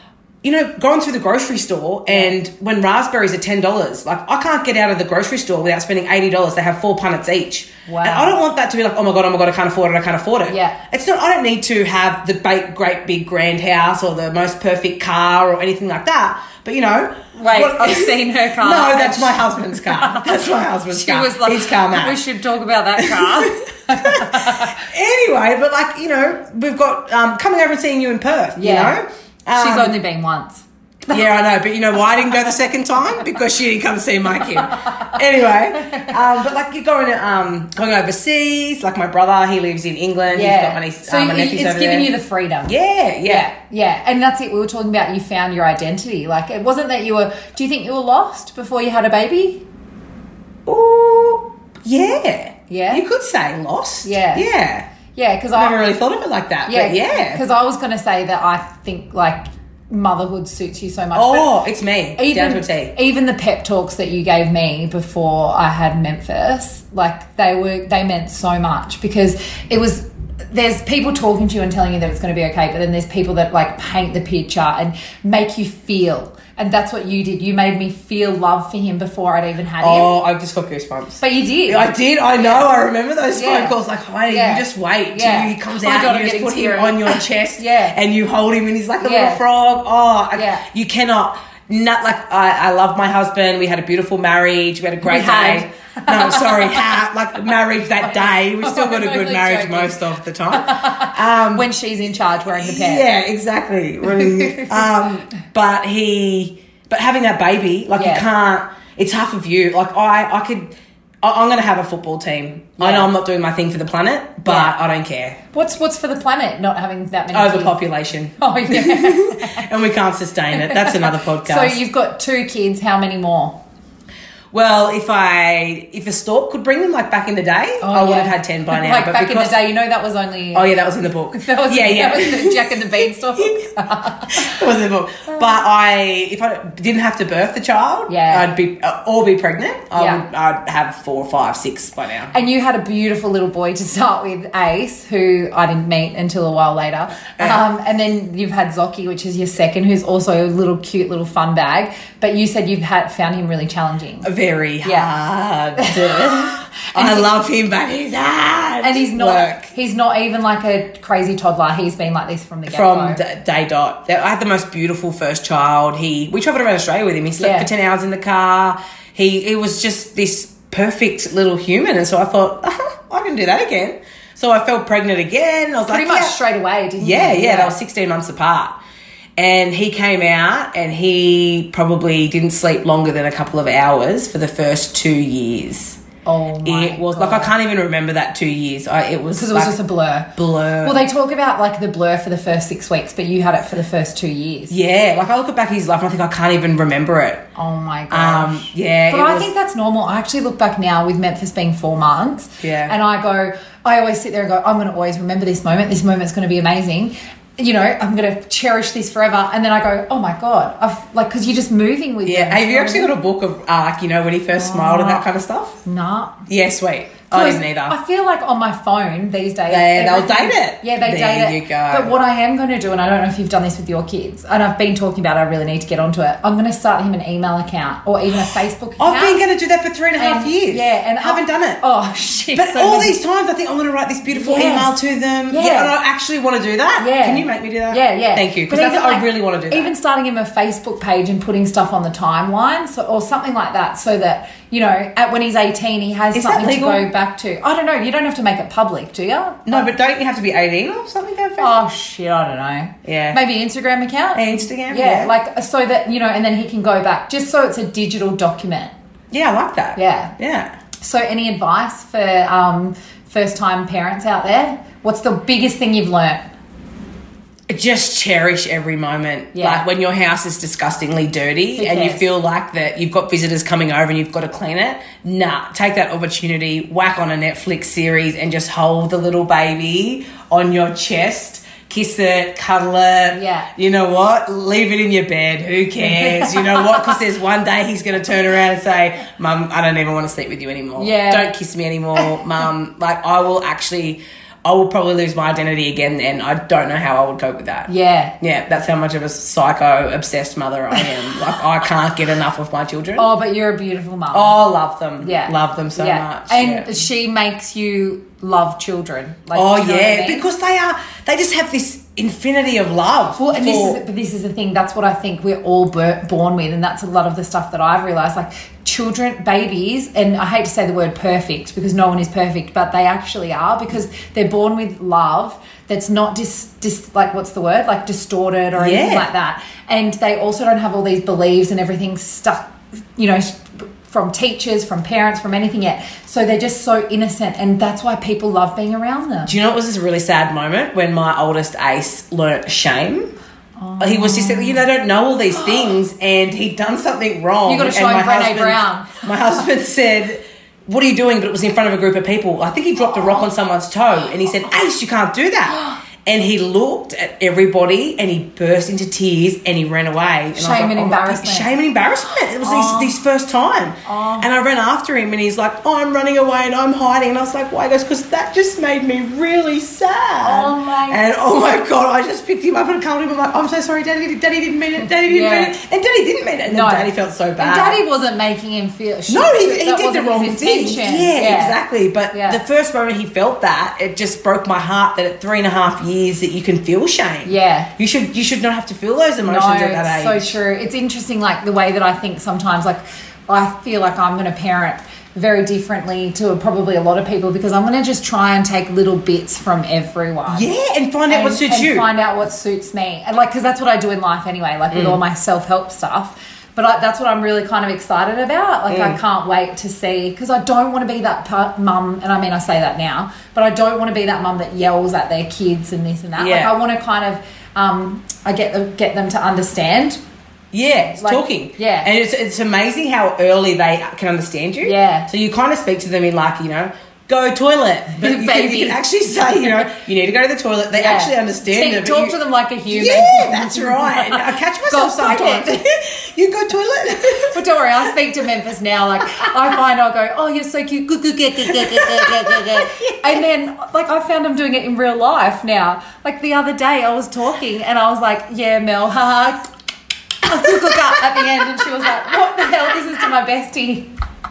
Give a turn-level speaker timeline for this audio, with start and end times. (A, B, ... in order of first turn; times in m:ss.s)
0:00.4-0:22.2 A
0:02.1-0:02.3 B
0:07.9-0:08.4 B
0:10.5-0:10.8 B
0:17.3-0:24.8 B
0:23.0-0:23.5 A
0:24.0-0:29.9 A
0:28.6-0:29.0 B
0:29.5-0:31.3 B
0:31.1-0:42.1 A
0:35.8-0:36.1 B
0:40.3-0:42.7 B
0:42.6-0:43.5 A
0:43.2-0:49.6 B
0:50.7-0:54.9 A
0:52.7-0:53.0 B
0:54.0-0:54.5 B
0:55.1-0:55.8 B
0:55.5-0:57.4 A
0:56.6-1:01.6 B
1:01.1-1:02.9 A
1:02.2-1:20.1 B
1:19.8-1:41.7 A
1:21.2-1:21.9 B
1:23.3-1:28.0 B
1:29.0-1:29.4 B
1:30.3-1:30.6 B
1:35.0-1:36.9 B
1:38.6-1:43.0 B
1:42.5-1:50.7 A
1:44.2-1:44.7 B
1:48.0-1:48.2 B
1:51.2-1:55.4 A
1:52.8-1:53.1 B
1:54.4-1:54.7 B
1:55.5-1:57.8 B
1:57.3-2:01.8 A
1:58.4-1:59.7 B
2:00.5-2:03.6 B
2:04.5-2:09.6 A
2:07.8-2:10.7 B
2:10.5-2:13.6 A
2:11.3-2:14.6 B
2:14.3-2:22.3 A
2:18.1-2:18.5 B
2:20.0-2:20.2 B
2:22.3-2:34.3 B
2:27.4-2:27.6 A
2:34.2-2:39.7 A
2:34.8-2:35.1 B
2:35.8-2:37.3 B
2:38.8-2:43.2 B
2:42.7-2:56.4 A
2:47.4-2:47.7 B
2:55.9-2:57.8 B
2:57.0-2:58.8 A
2:59.4-3:06.0 A
3:06.2-3:07.5 B
3:06.6-3:09.8 A
3:09.3-3:14.7 B
3:10.4-3:11.0 A
3:14.7-3:17.4 A
3:17.6-3:33.1 B
3:18.1-3:19.5 A
3:22.6-3:23.0 A
3:32.2-3:35.8 A
3:34.6-3:35.2 B
3:35.8-3:36.4 B
3:36.5-3:38.0 A
3:37.3-3:49.4 B
3:39.7-3:42.1 A
3:49.0-3:51.8 A
3:50.2-3:53.2 B
3:52.5-3:59.9 A
3:54.3-3:55.0 B
3:55.5-3:55.9 B
3:57.0-4:09.9 B
4:06.3-4:07.0 A
4:09.6-4:11.8 A
4:11.6-4:18.9 B
4:13.0-4:13.4 A
4:14.3-4:15.3 A
4:19.3-4:20.7 A
4:20.0-4:20.3 B
4:21.0-4:26.4 B
4:27.7-4:57.9 A
4:29.5-4:29.8 B
4:31.8-4:32.3 B
4:43.3-4:43.7 B
4:46.0-4:47.2 B
4:51.0-4:51.5 B
4:57.9-4:58.3 B
4:58.4-5:03.3 A
5:03.2-5:04.5 B
5:04.3-5:06.9 A
5:05.2-5:10.4 B
5:09.5-5:14.0 A
5:13.4-5:39.5 B
5:28.7-5:29.3 A
5:39.4-5:43.3 A
5:43.8-5:44.8 B
5:44.0-6:18.0 A
5:47.6-5:49.3 B
6:00.5-6:01.7 B
6:02.6-6:03.2 B
6:04.0-6:04.5 B
6:10.4-6:11.2 B
6:15.2-6:15.7 B
6:16.7-6:21.8 B
6:19.3-6:30.5 A
6:22.3-6:22.6 B
6:27.4-6:27.9 B
6:29.4-6:40.7 B
6:40.5-6:42.1 A
6:41.3-7:00.2 B
6:44.9-6:45.2 A
6:48.9-6:49.2 A
6:56.4-6:56.8 A
7:00.7-7:12.3 A
7:01.1-7:02.1 B
7:04.8-7:05.3 B
7:08.1-7:09.0 B
7:10.9-7:15.8 B
7:12.9-7:17.6 A
7:17.5-7:29.7 B
7:21.7-7:23.4 A
7:30.4-7:34.1 B